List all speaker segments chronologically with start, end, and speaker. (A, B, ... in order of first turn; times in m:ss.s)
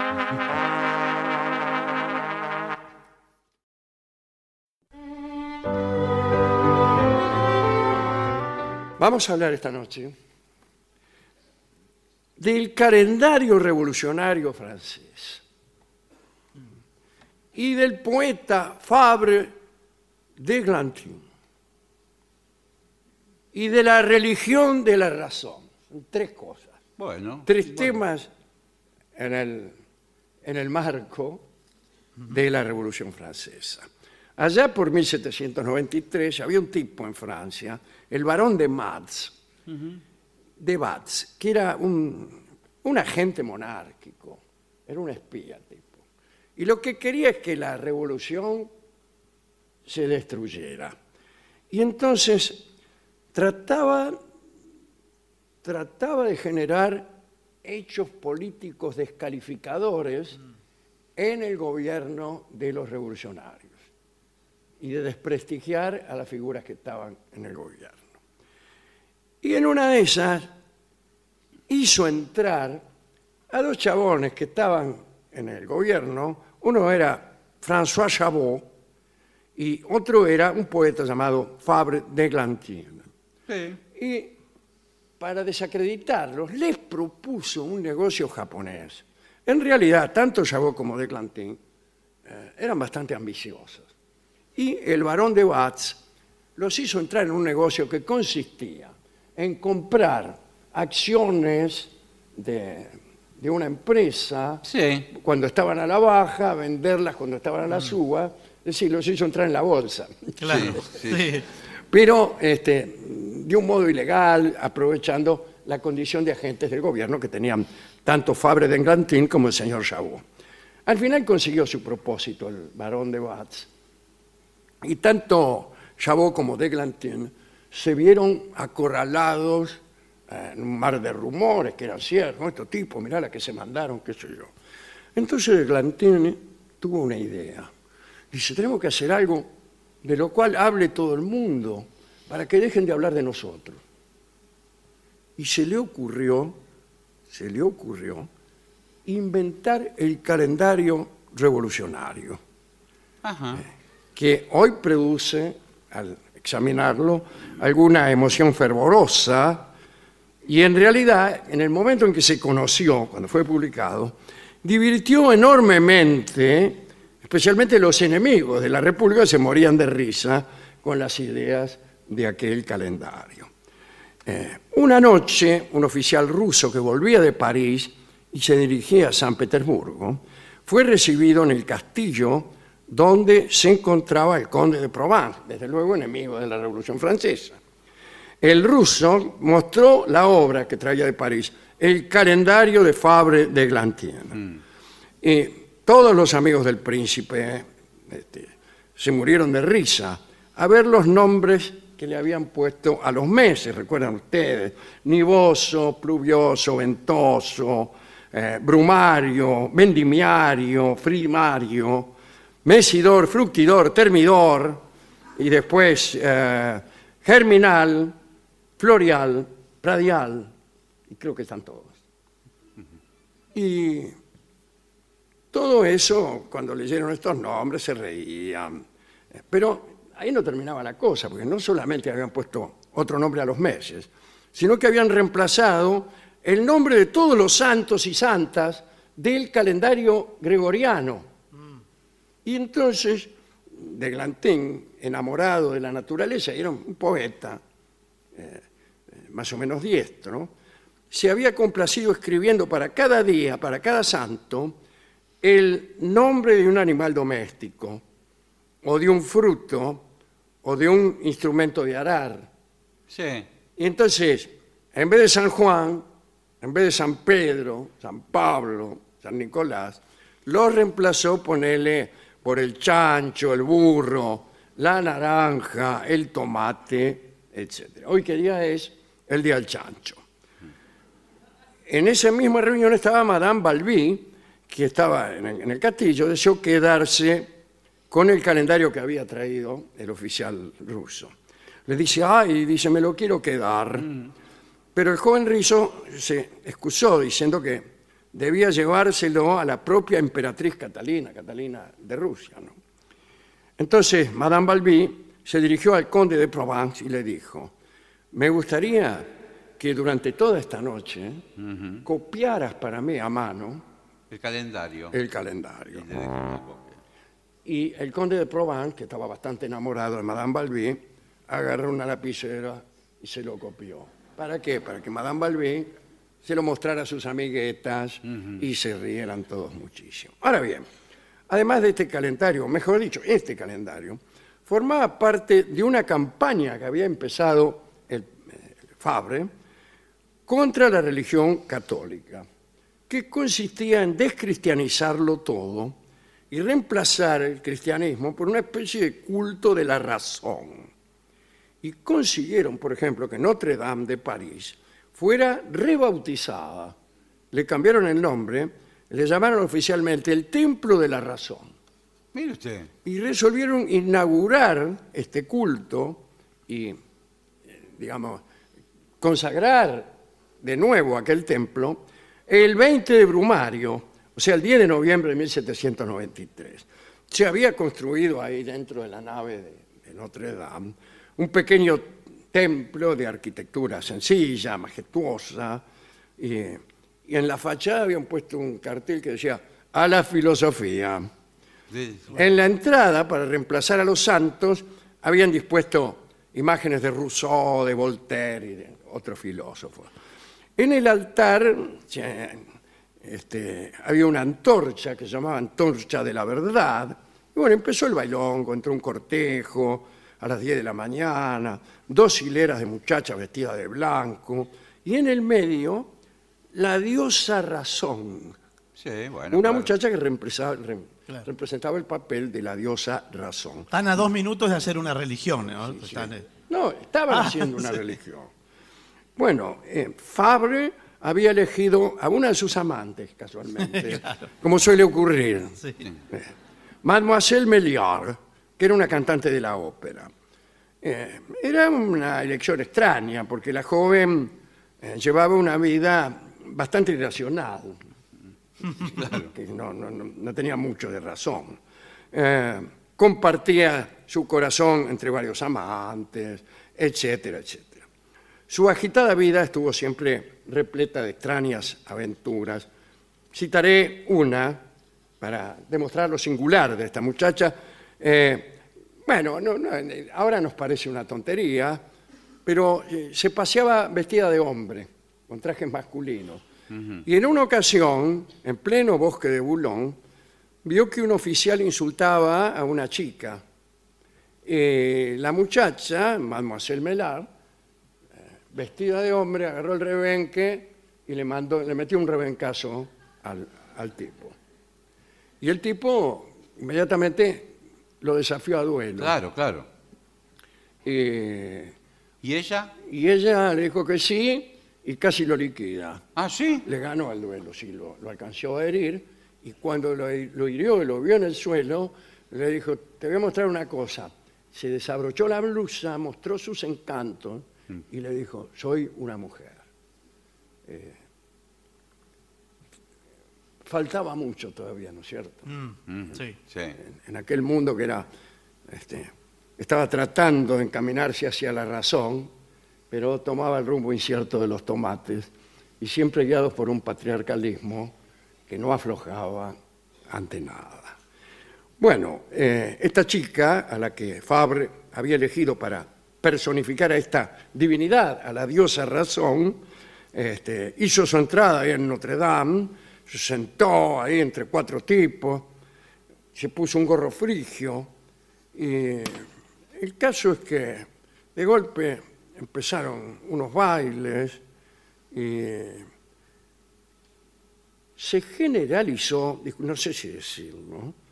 0:09.0-0:10.1 A
0:12.4-0:15.4 A
0:17.5-0:19.5 A
0:20.4-0:21.2 A
0:23.5-0:26.8 A
0:27.0-0:28.0 B
0:27.4-0:28.3 A
0:29.2-0:29.8 A
0:30.4-0:31.4 A
0:32.3-0:39.3 A
0:39.7-0:40.0 B
0:40.6-0:46.0 A
0:46.6-0:48.7 A
0:49.8-0:50.9 A
0:51.7-0:52.7 A
0:53.3-0:54.2 A
0:55.6-1:00.4 A
1:01.2-1:03.8 A
1:04.8-1:08.0 A
1:09.4-1:10.5 A
1:11.7-1:12.8 A
1:13.5-1:18.7 A
1:19.6-1:23.0 A
1:23.5-1:23.8 B
1:23.9-1:24.3 A
1:25.2-1:31.6 A
1:32.2-1:33.9 A
1:34.6-1:36.0 A
1:36.6-1:50.8 A
1:44.6-1:45.1 B
1:50.4-1:51.4 C
1:50.5-1:51.3 B
1:51.9-2:00.2 A
2:00.8-2:03.7 A
2:04.8-2:14.5 A
2:15.1-2:17.7 A
2:18.3-2:19.5 A
2:20.0-2:23.8 A
2:25.4-2:26.6 A
2:27.3-2:28.3 A
2:29.0-2:32.4 A
2:33.2-2:33.6 B
2:34.2-2:39.7 A
2:40.4-2:53.5 A
2:54.2-3:07.6 A
3:08.4-3:14.4 A
3:15.2-3:32.1 A
3:32.6-3:34.8 A
3:35.4-3:38.1 A
3:38.8-3:40.5 A
3:41.1-3:42.0 A
3:43.5-3:44.1 A
3:45.5-3:48.8 A
3:49.5-4:01.3 A
4:02.4-4:07.6 A
4:08.3-4:08.6 A
4:09.2-4:10.5 A
4:11.1-4:14.8 A
4:15.4-4:18.0 A
4:18.8-4:20.0 A
4:20.6-4:22.5 A
4:23.1-4:23.5 B
4:23.8-4:26.0 A
4:26.6-4:40.2 A
4:41.9-4:47.5 A
4:48.1-4:51.3 A
4:51.9-4:54.1 A
4:54.9-5:02.7 A
5:03.8-5:07.7 A
5:08.3-5:11.4 A
5:11.6-5:12.0 B
5:12.0-5:13.8 A
5:14.3-5:15.2 B
5:15.1-5:16.0 A
5:15.9-5:17.0 B
5:17.6-5:25.9 A
5:26.4-5:30.8 A
5:31.5-5:39.5 A
5:40.5-5:42.4 A
5:43.1-5:46.0 A
5:46.5-5:50.9 A
5:51.8-5:56.9 A
5:57.5-6:01.7 A
6:02.3-6:02.9 B
6:03.0-6:07.0 A
6:07.9-6:08.4 A
6:09.2-6:25.8 A
6:26.4-6:31.3 A
6:31.9-6:32.4 B
6:32.3-6:40.1 A
6:40.8-6:42.6 A
6:43.2-6:56.1 A
6:56.7-6:58.6 A
6:59.0-6:59.9 B
6:59.5-7:03.9 A
7:03.9-7:06.4 C
7:05.8-7:08.5 A
7:07.3-7:08.0 C
7:09.4-7:16.5 A
7:13.9-7:14.3 C
7:17.0-7:20.3 A
7:21.0-7:28.0 A
7:29.0-7:31.8 A
7:29.0-7:29.5 B
7:32.3-7:38.0 A
7:38.7-7:42.9 A
7:43.5-7:44.8 A
7:45.4-7:52.0 A
7:52.6-7:56.6 A
7:56.9-7:57.2 B
7:57.2-8:00.2 A
8:00.8-8:03.6 A
8:04.6-8:07.5 A
8:08.7-8:14.5 A
8:15.6-8:19.3 A
8:19.2-8:19.9 B
8:21.0-8:22.0 A
8:22.4-8:22.9 B
8:23.0-8:26.2 A
8:26.4-8:26.8 B
8:26.8-8:39.8 A
8:40.8-8:41.2 A
8:43.8-8:45.7 A
8:45.7-8:46.6 C
8:46.1-8:47.0 B
8:47.0-8:48.3 A
8:48.9-8:52.5 A
8:53.1-8:55.5 A
8:56.0-8:58.1 A
8:58.7-8:59.7 A
9:00.3-9:01.2 A
9:02.0-9:09.8 A
9:10.3-9:15.7 A
9:16.5-9:18.1 A
9:18.7-9:24.6 A
9:25.3-9:26.1 A
9:28.2-9:31.1 A